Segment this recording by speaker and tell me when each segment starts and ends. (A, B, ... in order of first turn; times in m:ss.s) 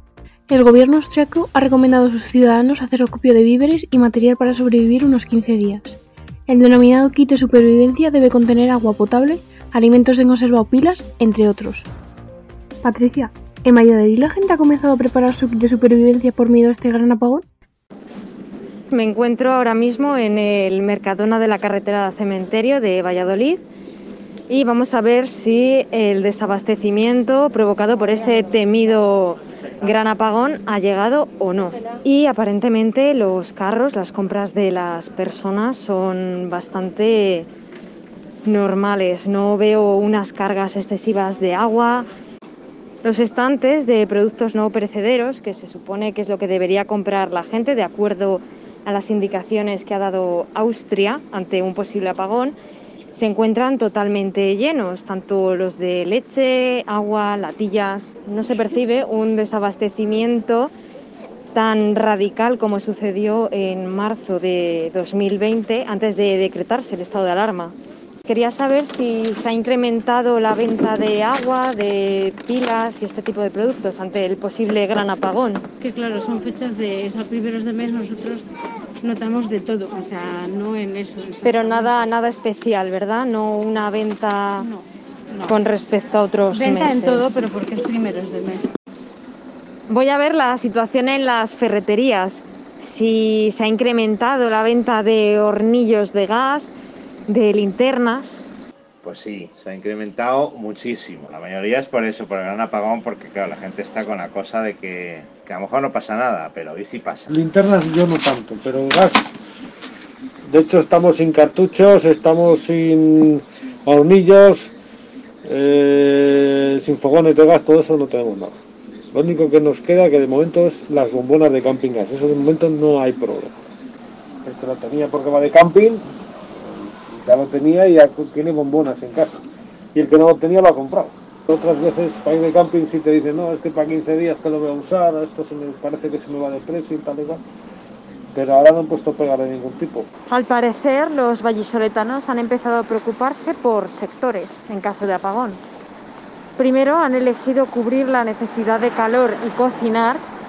0:00.5-0:06.0 A
0:06.6-0:11.9 A
0:13.1-0:17.4 A
0:18.9-0:23.6 B
0:24.5-0:37.5 B
0:38.4-0:42.1 B
0:43.0-0:52.6 B
0:53.1-1:00.7 B
1:01.5-1:15.6 B
1:15.8-1:18.4 C
1:19.0-1:22.0 C
1:21.4-1:24.7 B
1:24.6-1:25.6 C
1:25.5-1:27.4 B
1:26.5-1:28.7 C
1:29.9-1:36.7 B
1:37.3-1:38.5 B
1:39.0-1:47.3 D
1:47.3-1:49.3 E
1:50.5-1:54.7 E
1:55.4-1:58.6 E
1:59.1-2:03.6 E
2:04.4-2:06.0 E
2:07.1-2:17.4 E
2:18.3-2:20.1 E
2:20.3-2:25.6 B
2:26.6-2:30.2 B